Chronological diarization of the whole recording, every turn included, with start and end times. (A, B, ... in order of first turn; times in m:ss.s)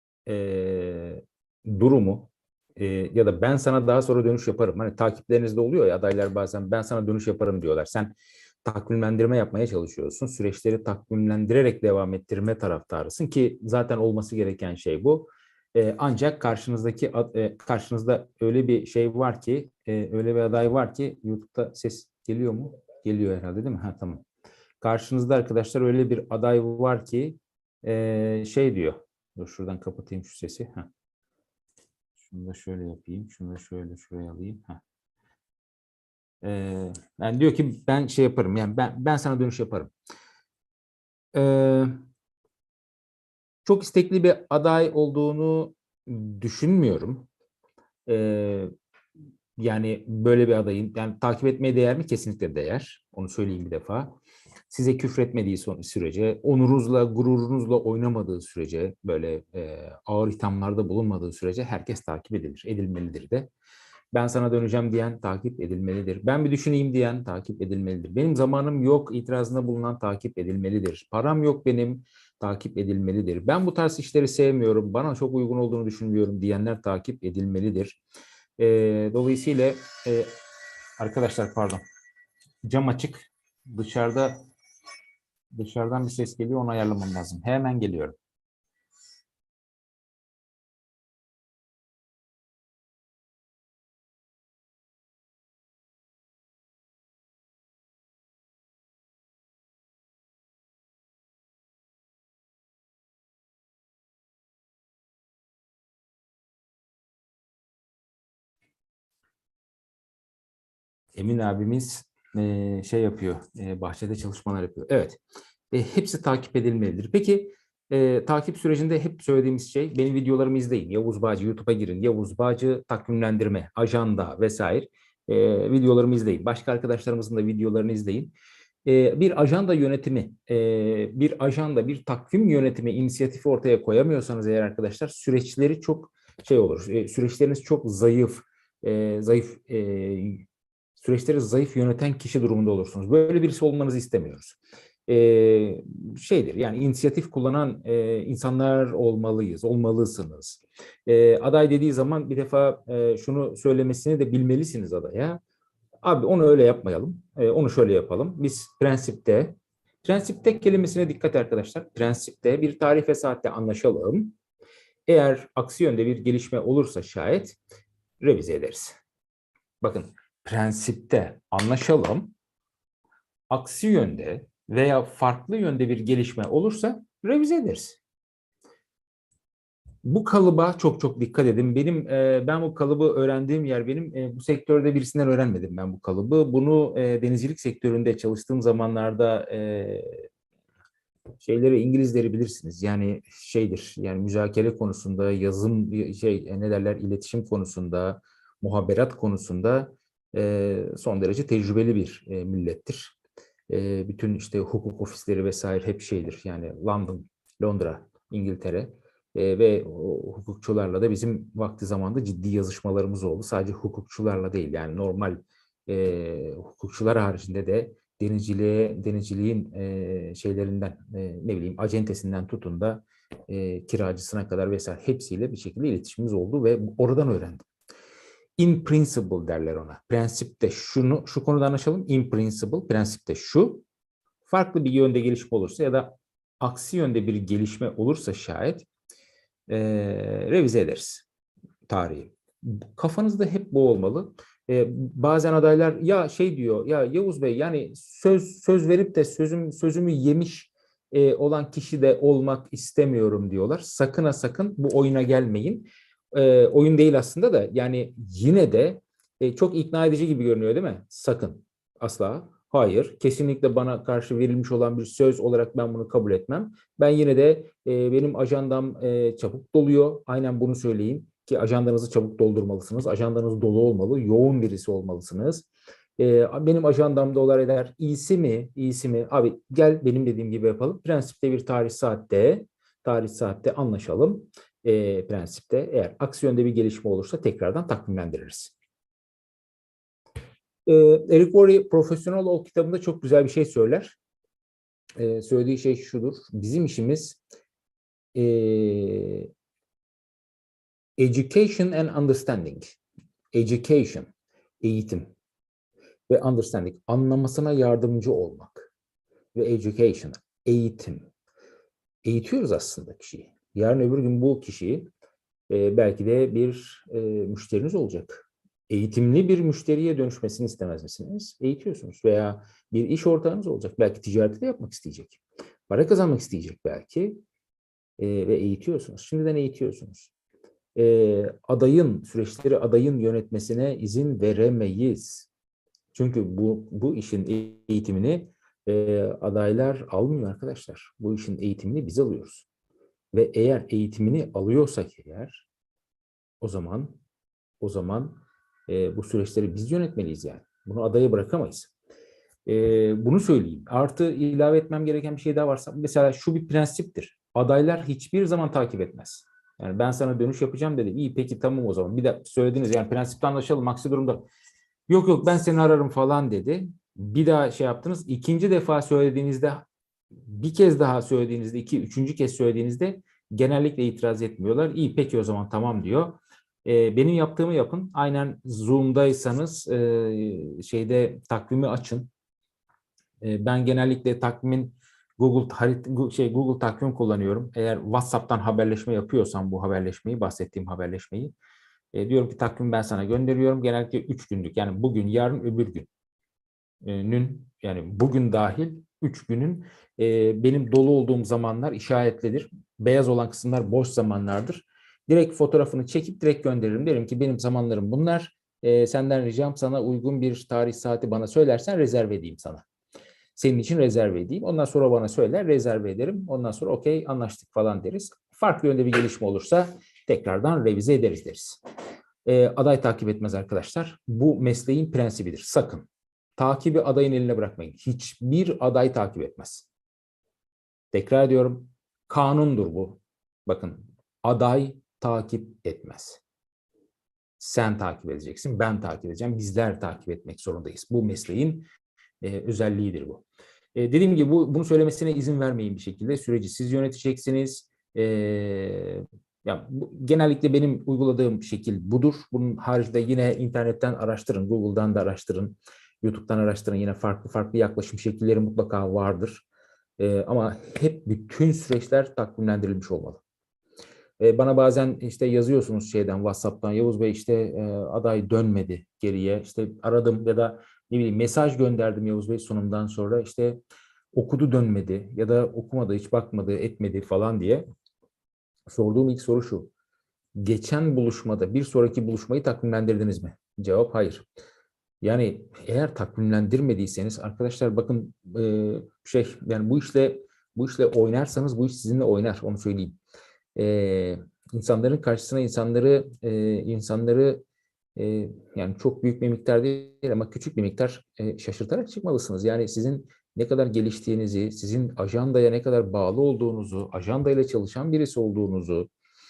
0:00.3-0:24.2 A
0:24.8-0:30.9 A
0:32.2-0:34.8 A
0:36.4-0:39.9 A
0:41.3-0:41.9 A
0:43.6-0:47.3 A
0:48.1-0:48.7 A
0:49.6-0:54.1 A
0:54.7-1:03.5 A
1:04.1-1:18.0 A
1:18.6-1:20.3 A
1:21.0-1:21.8 A
1:22.6-1:24.4 A
1:25.5-1:28.2 A
1:51.2-1:55.2 A
1:55.7-2:08.3 A
2:08.8-2:20.4 A
2:21.0-2:35.4 A
2:36.0-2:44.3 A
2:45.1-2:47.6 A
2:48.2-2:49.0 A
2:49.8-2:52.3 A
2:53.5-2:58.0 A
3:00.0-3:10.3 A
3:11.4-3:23.2 A
3:23.7-3:47.7 A
3:48.6-3:53.8 A
3:54.5-3:58.9 A
3:59.7-4:01.2 A
4:01.9-4:35.7 A
4:36.2-4:48.8 A
4:50.9-4:54.2 A
4:55.2-4:57.4 A
4:58.4-4:59.5 A
5:01.2-5:03.0 A
5:03.5-5:04.3 A
5:04.8-5:05.3 A
5:06.3-5:08.9 A
5:09.6-5:11.3 A
5:12.2-5:15.1 A
5:15.7-5:27.4 A
5:28.2-5:30.3 A
5:31.0-5:35.5 A
5:36.1-5:42.7 A
5:43.3-5:45.7 A
5:46.6-5:47.2 A
5:47.8-5:51.9 A
5:52.7-6:04.4 A
6:05.1-6:09.8 A
6:10.5-6:22.3 A
6:23.4-6:31.5 A
6:32.1-6:36.1 A
6:37.0-6:52.8 A
6:53.6-7:01.8 A
7:02.4-7:09.9 A
7:11.1-7:16.4 A
7:17.6-7:21.9 A
7:22.4-7:39.6 A
7:40.2-7:43.4 A
7:44.4-7:53.8 A
7:54.3-7:57.8 A
7:58.9-7:59.9 A
8:00.6-8:04.5 A
8:05.2-8:13.2 A
8:13.8-8:17.6 A
8:18.2-8:29.1 A